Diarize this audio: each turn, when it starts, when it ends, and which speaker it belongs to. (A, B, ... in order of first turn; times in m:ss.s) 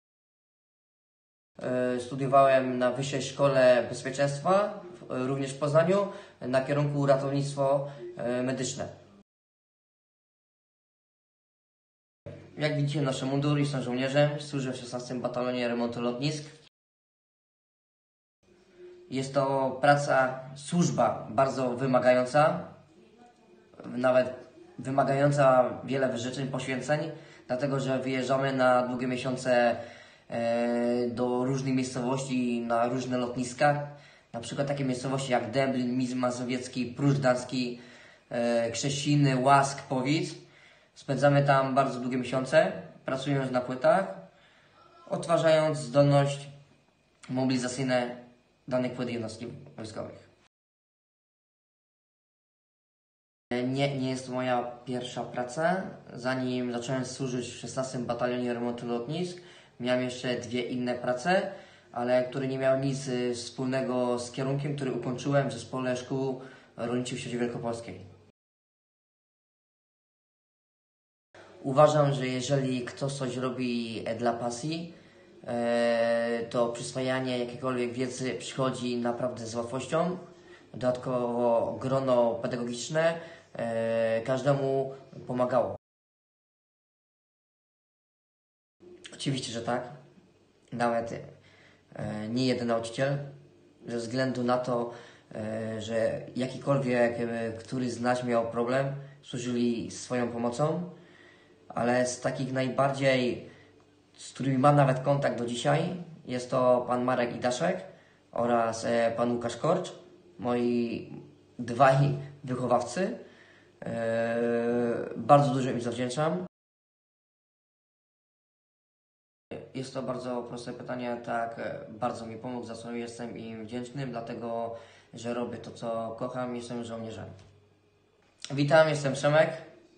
0:01.6-0:08.9 A
0:12.6-0:16.5 A
0:19.1-0:22.7 A
0:23.8-0:37.8 A
0:38.3-0:40.4 A
0:40.9-0:44.2 A
0:45.1-0:46.5 A
0:47.3-0:50.2 A
0:53.5-1:08.0 A
1:11.6-1:20.2 A
1:20.7-1:25.8 A
1:29.1-1:29.9 A
1:30.7-1:31.2 A
1:31.9-1:33.3 A
1:33.8-1:40.9 A
1:41.7-1:43.4 A
1:44.2-1:53.2 A
1:53.8-1:56.5 A
1:59.7-2:07.3 A
2:08.5-2:09.6 A